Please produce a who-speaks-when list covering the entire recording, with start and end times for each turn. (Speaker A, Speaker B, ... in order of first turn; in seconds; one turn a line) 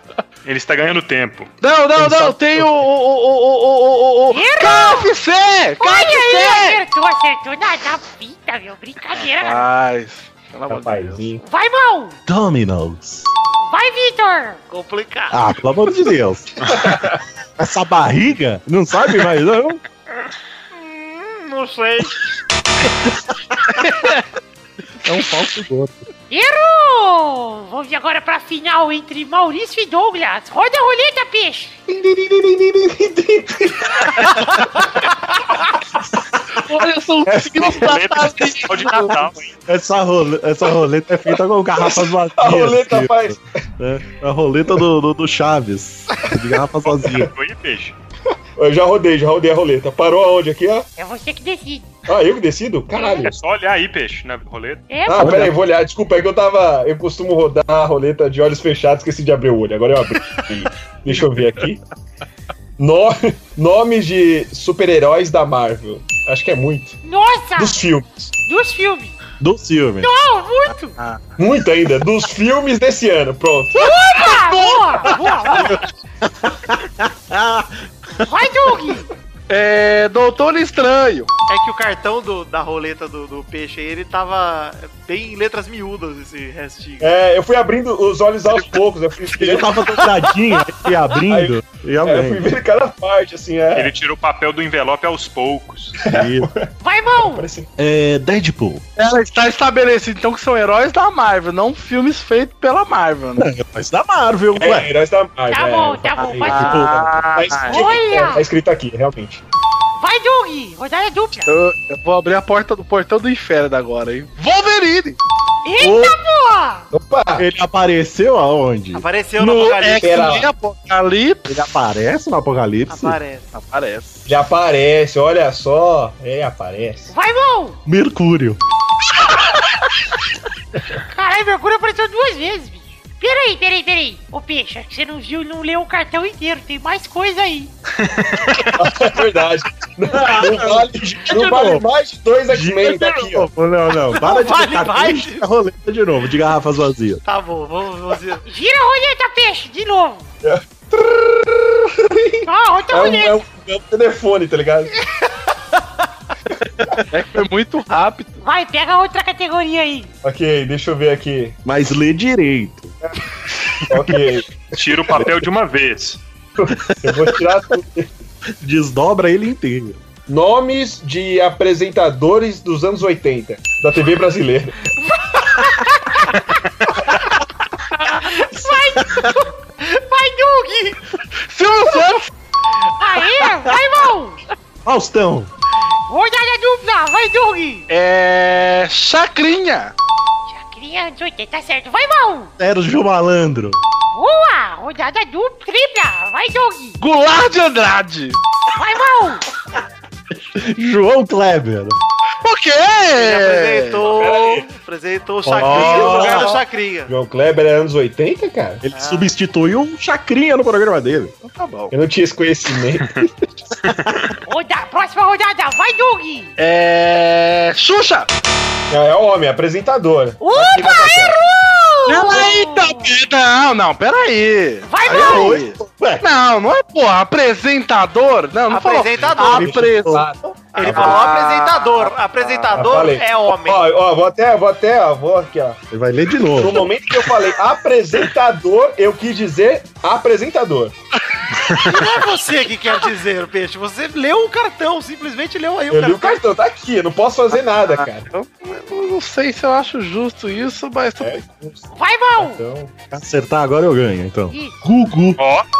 Speaker A: 0.4-1.5
Speaker B: 1.6-6.8
Speaker C: 2.0-2.8
Speaker D: 4.3-5.1
Speaker D: 5.8-9.7
Speaker B: 9.1-11.3
Speaker E: 10.7-11.4
Speaker D: 11.4-12.2
Speaker C: 12.2-13.3
Speaker D: 13.6-14.6
Speaker F: 14.7-15.4
Speaker C: 15.3-16.8
Speaker E: 16.7-17.2
Speaker C: 17.6-19.8
Speaker F: 20.7-22.2
Speaker C: 22.9-23.8
Speaker B: 23.8-24.2
Speaker B: 25.0-25.6
Speaker C: 25.1-26.0
Speaker D: 26.3-31.8
Speaker E: 31.9-34.8
Speaker B: 36.6-39.2
Speaker A: 37.6-39.5
Speaker C: 39.6-43.2
Speaker E: 41.8-43.4
Speaker C: 43.8-47.3
Speaker A: 46.8-48.0
Speaker E: 48.5-50.9
Speaker D: 51.0-52.0
Speaker E: 52.1-53.3
Speaker D: 53.0-53.3
Speaker A: 53.2-55.0
Speaker D: 54.9-55.5
Speaker E: 55.1-61.8
Speaker C: 55.2-55.5
Speaker E: 62.8-67.0
Speaker D: 67.0-67.8
Speaker E: 67.6-68.3
Speaker D: 68.4-69.2
Speaker C: 69.4-70.1
Speaker D: 70.0-70.9
Speaker E: 71.4-73.9
Speaker D: 73.7-75.8
Speaker B: 74.7-75.3
Speaker C: 75.6-78.3
Speaker D: 78.2-79.1
Speaker B: 79.5-81.3
Speaker F: 81.5-87.1
Speaker E: 87.0-90.0
Speaker C: 89.3-92.5
Speaker E: 91.2-93.9
Speaker A: 93.7-96.0
Speaker E: 96.0-97.7
Speaker C: 96.0-96.5
Speaker D: 96.8-97.5
Speaker C: 97.8-98.8
Speaker B: 99.0-103.5
Speaker C: 103.4-104.9
Speaker E: 104.5-109.4
Speaker D: 105.5-107.0
Speaker B: 106.4-108.0
Speaker D: 107.7-108.4
Speaker D: 110.0-111.5
Speaker B: 111.5-115.2
Speaker D: 115.6-116.9
Speaker C: 115.8-116.2
Speaker E: 116.9-117.5
Speaker C: 117.4-119.0
Speaker F: 118.9-120.2
Speaker B: 119.4-121.5
Speaker E: 120.0-120.5
Speaker C: 121.5-123.2
Speaker F: 122.9-123.5
Speaker B: 123.5-124.3
Speaker E: 124.3-127.1
Speaker D: 127.1-127.8
Speaker C: 127.8-128.6
Speaker D: 131.1-137.7
Speaker A: 138.0-138.8
Speaker E: 138.7-143.5
Speaker C: 140.1-141.8
Speaker C: 142.5-147.2
Speaker F: 144.2-145.5
Speaker F: 147.2-148.4
Speaker D: 148.4-150.3
Speaker E: 150.4-154.9
Speaker D: 152.4-153.4
Speaker B: 157.1-158.4
Speaker D: 158.4-160.1
Speaker E: 160.2-161.6
Speaker C: 161.6-162.9
Speaker E: 163.9-164.5
Speaker A: 164.7-166.2
Speaker E: 166.6-168.1
Speaker C: 166.8-167.2
Speaker C: 168.5-170.0
Speaker E: 170.3-174.9
Speaker D: 175.8-176.3
Speaker D: 178.2-179.5
Speaker C: 179.0-179.3
Speaker F: 179.8-181.0
Speaker B: 181.4-182.3
Speaker D: 183.0-184.4
Speaker C: 184.8-185.5
Speaker D: 186.1-187.9
Speaker B: 187.9-189.9
Speaker D: 190.5-192.5
Speaker C: 192.6-193.8
Speaker D: 194.1-197.0
Speaker B: 197.0-198.4
Speaker D: 198.7-199.4
Speaker C: 200.3-202.0
Speaker B: 202.4-204.1
Speaker F: 203.1-207.1
Speaker E: 204.0-204.7
Speaker C: 205.4-206.5
Speaker B: 205.6-206.6
Speaker E: 207.1-208.8
Speaker C: 208.8-211.3
Speaker F: 208.9-209.3
Speaker B: 211.4-211.9
Speaker E: 211.9-213.3
Speaker C: 213.9-214.2
Speaker D: 214.4-216.5
Speaker B: 216.6-218.3
Speaker E: 218.9-221.4
Speaker D: 220.4-223.2
Speaker B: 222.1-230.3
Speaker D: 224.8-225.6
Speaker C: 225.0-226.2
Speaker F: 228.7-229.8
Speaker C: 229.4-231.1
Speaker E: 229.6-231.2
Speaker F: 230.7-233.8
Speaker B: 230.8-233.0
Speaker E: 232.7-235.8
Speaker C: 235.9-236.9
Speaker E: 236.5-240.9
Speaker F: 241.8-246.4
Speaker E: 245.9-248.3
Speaker B: 247.8-251.4
Speaker D: 251.9-252.6
Speaker E: 252.4-252.9
Speaker C: 253.0-255.4
Speaker D: 254.5-254.9
Speaker A: 255.4-255.7